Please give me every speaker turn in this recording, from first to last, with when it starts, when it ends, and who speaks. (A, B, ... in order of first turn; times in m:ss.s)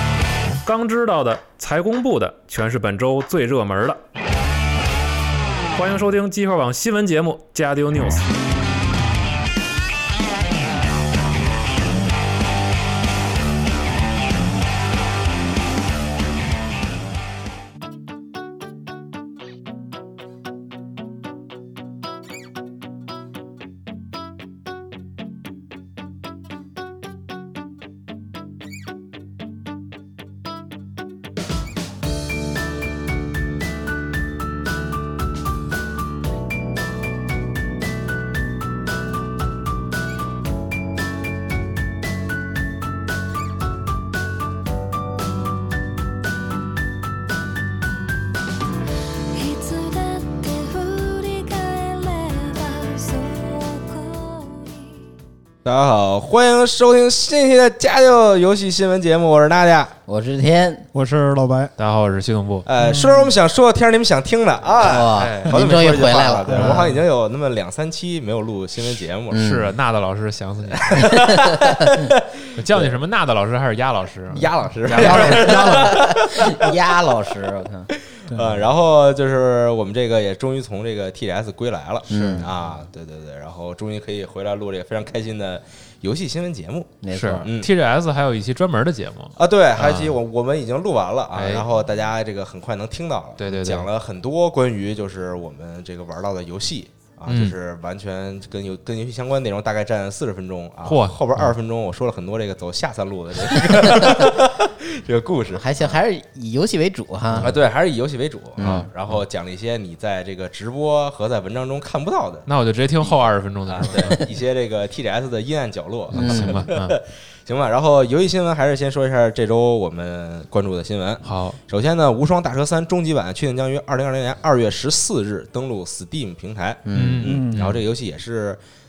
0:00.6-0:04.0 A
0:05.8-0:08.3 A
0:49.3-0:55.1 B
0:55.6-1:00.0 C
1:00.1-1:00.9 D
1:00.9-1:01.7 E
1:01.8-1:02.7 A
1:02.6-1:09.5 C
1:02.8-1:03.4 E
1:04.8-1:06.9 D
1:05.1-1:05.6 A
1:06.5-1:07.0 E
1:09.3-1:09.7 D
1:09.3-1:11.1 A
1:10.7-1:12.9 C
1:11.0-1:12.1 D
1:12.5-1:15.6 A
1:14.3-1:16.7 C
1:14.9-1:16.0 E
1:15.0-1:17.9 D
1:18.0-1:27.7 C
1:18.3-1:18.7 E
1:22.1-1:22.5 D
1:27.0-1:27.5 D
1:27.1-1:30.2 A
1:29.4-1:46.0 C
1:31.3-1:31.7 A
1:33.4-1:33.9 A
1:37.3-1:37.6 A
1:40.9-1:41.4 A
1:45.5-1:47.5 D
1:47.4-1:52.5 C
1:48.6-1:48.9 D
1:48.6-1:49.2 A
1:52.5-1:54.3 A
1:53.0-2:08.6 C
1:56.1-1:56.6 D
1:56.1-1:57.0 A
2:01.2-2:01.6 A
2:06.8-2:07.2 D
2:06.9-2:07.7 A
2:07.2-2:07.8 E